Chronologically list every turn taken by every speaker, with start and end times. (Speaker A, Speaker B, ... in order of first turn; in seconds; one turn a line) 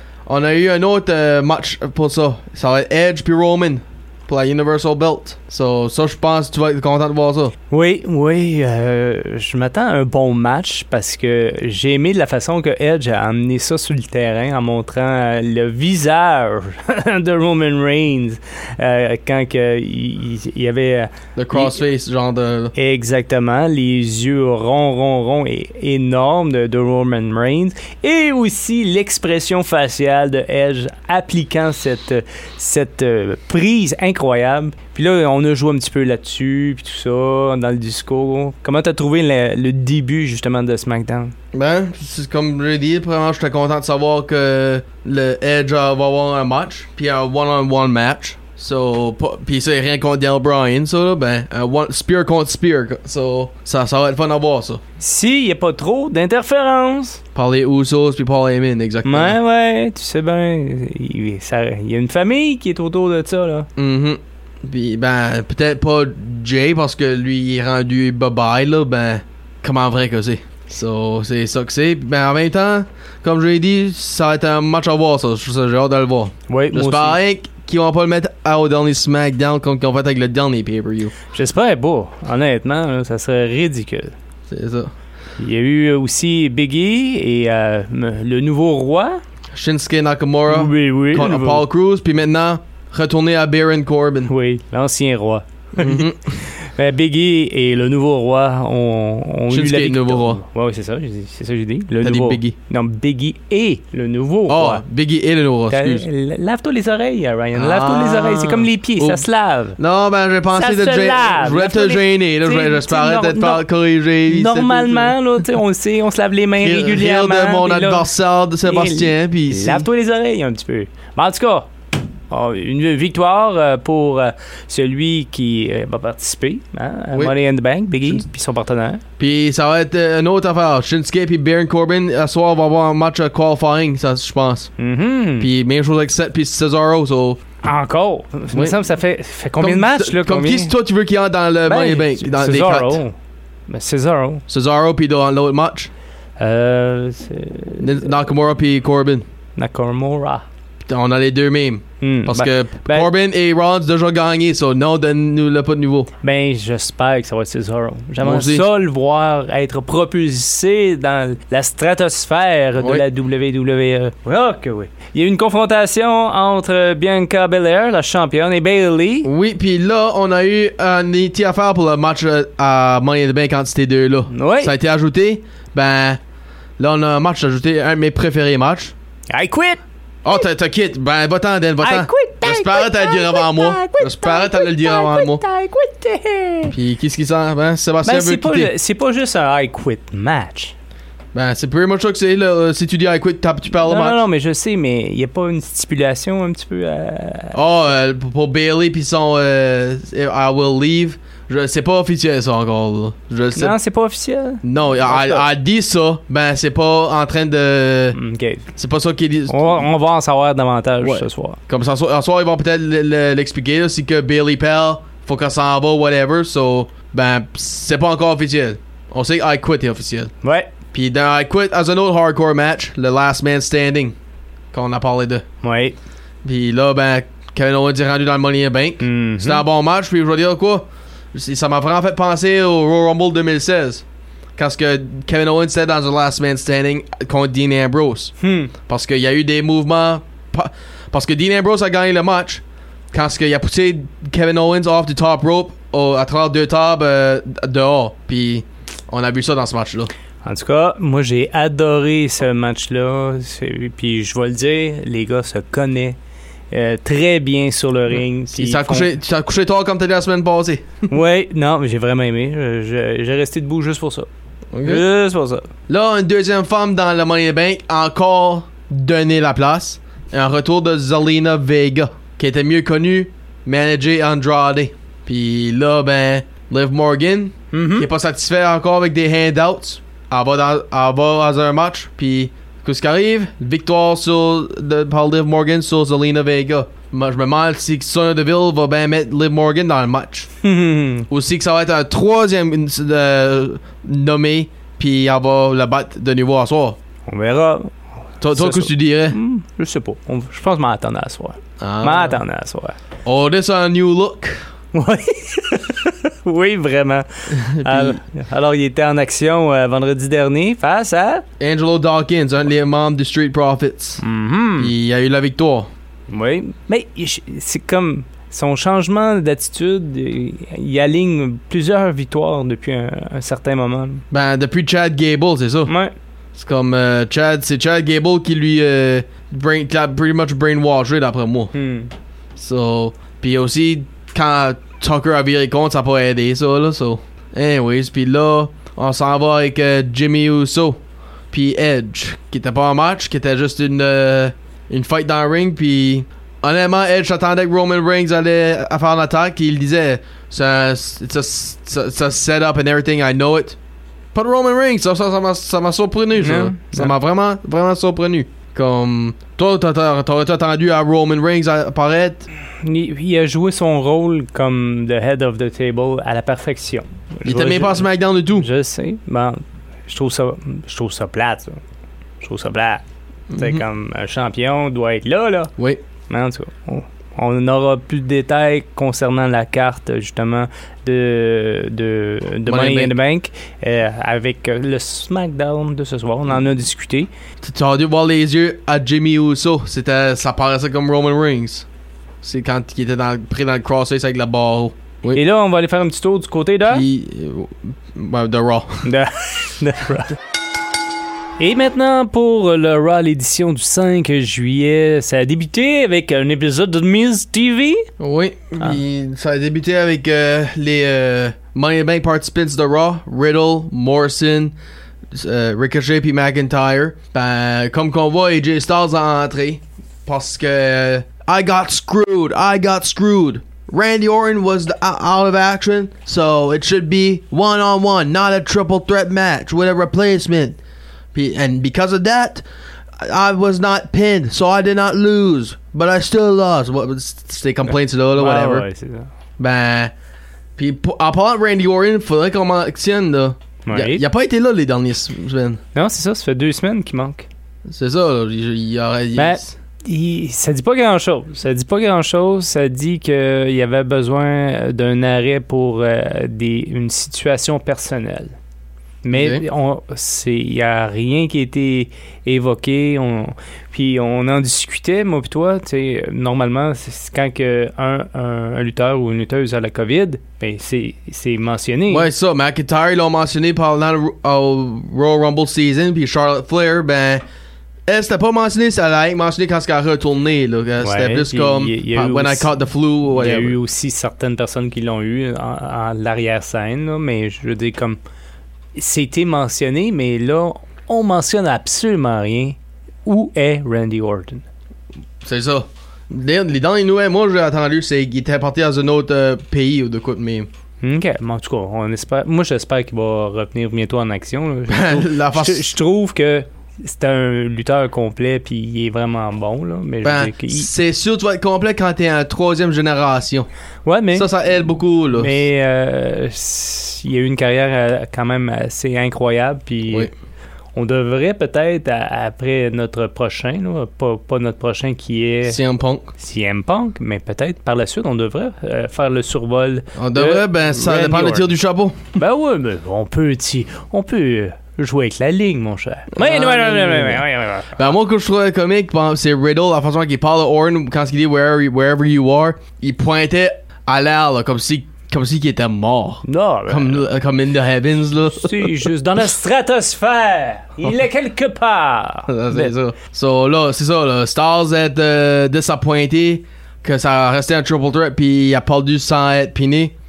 Speaker A: 0.2-7.5
Speaker B: 7.7-21.7
Speaker A: 21.4-22.7
Speaker B: 22.7-41.3
Speaker A: 41.5-54.8
Speaker B: 55.0-57.2
Speaker A: 57.3-59.4
Speaker B: 59.0-63.7
Speaker A: 63.8-81.1
Speaker B: 76.5-77.2
Speaker B: 81.3-84.1
Speaker A: 84.5-84.9
Speaker B: 85.4-89.2
Speaker A: 89.5-94.3
Speaker B: 90.5-91.7
Speaker B: 94.2-104.8
Speaker A: 95.8-96.4
Speaker A: 99.5-100.4
Speaker A: 102.0-102.5
Speaker A: 104.5-106.0
Speaker B: 105.7-109.8
Speaker A: 107.5-109.2
Speaker A: 109.8-115.1
Speaker B: 110.5-113.6
Speaker B: 114.3-118.0
Speaker A: 116.6-119.9
Speaker B: 118.6-121.7
Speaker B: 122.3-129.0
Speaker A: 129.2-134.7
Speaker B: 134.8-135.5
Speaker A: 135.4-137.4
Speaker B: 137.6-140.7
Speaker A: 138.5-138.8
Speaker A: 139.6-143.0
Speaker B: 141.7-143.1
Speaker B: 143.7-144.4
Speaker A: 144.5-145.9
Speaker B: 146.4-148.0
Speaker A: 147.8-149.2
Speaker B: 149.6-150.4
Speaker A: 150.8-156.1
Speaker B: 152.0-153.1
Speaker B: 156.2-169.3
Speaker A: 158.2-158.7
Speaker A: 169.2-176.2
Speaker B: 174.3-174.7
Speaker A: 176.8-178.9
Speaker B: 179.3-179.8
Speaker A: 180.2-185.4
Speaker B: 181.8-186.8
Speaker A: 186.7-188.7
Speaker B: 188.0-190.7
Speaker A: 191.3-194.2
Speaker B: 193.8-197.6
Speaker A: 197.5-203.8
Speaker B: 203.5-205.4
Speaker A: 204.6-208.2
Speaker B: 208.1-208.7
Speaker A: 208.8-209.8
Speaker B: 209.5-211.6
Speaker A: 211.0-220.3
Speaker B: 220.4-220.7
Speaker A: 220.9-224.1
Speaker A: 224.7-225.4
Speaker B: 225.6-226.0
Speaker A: 226.4-234.0
Speaker B: 229.0-229.6
Speaker A: 234.6-250.1
Speaker B: 238.4-238.7
Speaker B: 250.4-256.2
Speaker B: 256.7-259.1
Speaker A: 258.5-260.9
Speaker B: 261.1-264.3
Speaker A: 264.7-265.0
Speaker B: 264.8-265.7
Speaker A: 265.9-290.5
Speaker B: 277.7-278.1
Speaker B: 290.6-291.3
Speaker A: 291.3-297.0
Speaker B: 297.3-297.9
Speaker A: 298.4-299.4
Speaker B: 298.5-303.0
Speaker A: 301.8-302.4
Speaker A: 303.2-304.6
Speaker B: 304.9-311.4
Speaker A: 307.5-308.2
Speaker A: 311.6-314.2
Speaker B: 314.2-314.9
Speaker A: 314.8-315.9
Speaker B: 316.3-324.2
Speaker A: 324.3-325.9
Speaker B: 325.9-326.1
Speaker A: 326.6-331.7
Speaker B: 331.7-332.1
Speaker A: 332.6-341.0
Speaker A: 341.5-353.8
Speaker A: 354.3-362.5
Speaker B: 356.4-357.1
Speaker B: 362.8-371.8
Speaker A: 367.4-368.7
Speaker B: 372.4-373.0
Speaker A: 373.5-373.8
Speaker B: 373.5-375.7
Speaker A: 375.8-376.0
Speaker B: 376.3-387.3
Speaker A: 382.6-383.1
Speaker A: 387.6-391.9
Speaker A: 392.4-395.4
Speaker B: 395.3-397.0
Speaker A: 396.9-399.1
Speaker B: 399.0-400.4
Speaker B: 401.6-408.1
Speaker A: 408.2-414.8
Speaker A: 415.3-430.8
Speaker A: 431.3-432.6
Speaker A: 433.2-438.9
Speaker B: 438.4-439.3
Speaker A: 439.6-440.1
Speaker A: 440.8-445.8
Speaker B: 443.9-444.2
Speaker B: 445.9-447.5
Speaker A: 447.9-449.7
Speaker B: 449.3-458.5
Speaker B: 459.2-472.3
Speaker A: 459.3-459.6
Speaker A: 472.1-477.4
Speaker A: 478.1-483.8
Speaker B: 481.0-482.7
Speaker B: 483.3-488.2
Speaker B: 488.9-494.6
Speaker A: 495.4-500.7
Speaker B: 501.0-510.9
Speaker A: 504.9-505.9
Speaker A: 510.2-513.7
Speaker B: 514.0-514.5
Speaker A: 514.3-515.5
Speaker B: 515.4-520.3
Speaker B: 520.9-525.8
Speaker A: 525.6-526.3
Speaker B: 526.4-531.7
Speaker A: 530.1-532.2
Speaker B: 532.4-538.1
Speaker A: 536.3-549.0
Speaker B: 546.4-547.3
Speaker B: 548.5-552.9
Speaker A: 552.5-560.1